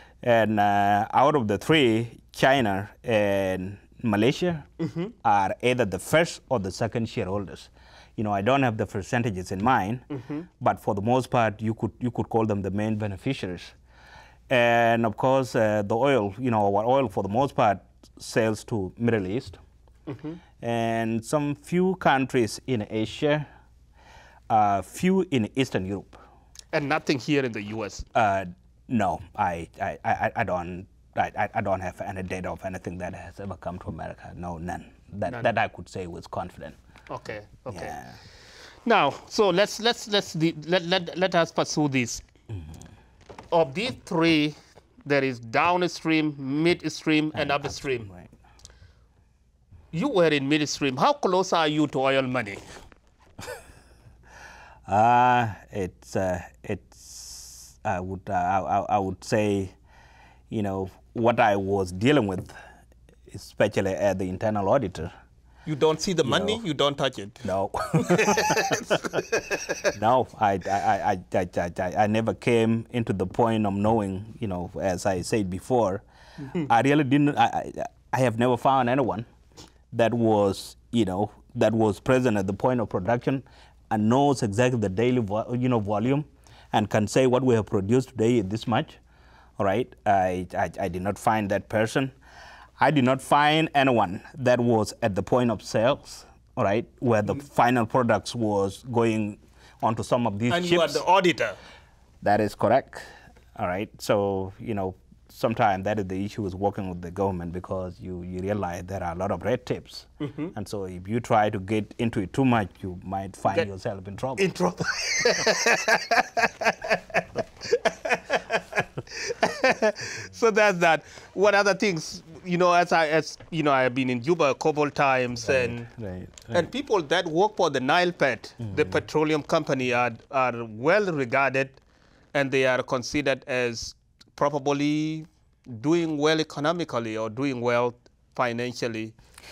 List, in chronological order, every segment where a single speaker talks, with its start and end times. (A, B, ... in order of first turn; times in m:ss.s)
0:00.2-0:04.6 A
0:04.8-0:05.1 B
0:05.2-0:10.0 A
0:10.1-0:10.4 B
0:10.6-0:13.7 A
0:14.5-0:19.6 A
0:20.1-0:20.4 B
0:20.6-0:23.5 A
0:24.5-0:26.2 A
0:26.7-0:28.0 B
0:28.1-0:36.8 A
0:35.3-0:35.5 B
0:37.1-0:38.0 B
0:37.7-0:38.2 A
0:38.8-0:42.2 B
0:43.5-0:48.1 B
0:47.3-0:48.3 A
0:49.9-0:52.6 B
0:54.8-0:59.7 A
1:00.5-1:02.5 A
1:03.3-1:05.1 A
1:05.6-1:09.8 B
1:06.2-1:06.6 A
1:07.4-1:09.0 A
1:09.9-1:19.3 A
1:19.9-1:29.0 A
1:29.6-1:32.2 A
1:32.8-1:41.0 A
1:40.5-1:41.6 B
1:42.2-1:54.5 A
1:50.2-1:50.5 B
1:54.4-2:05.9 B
2:05.4-2:06.7 A
2:06.5-2:11.8 B
2:08.6-2:09.0 A
2:12.3-2:19.1 B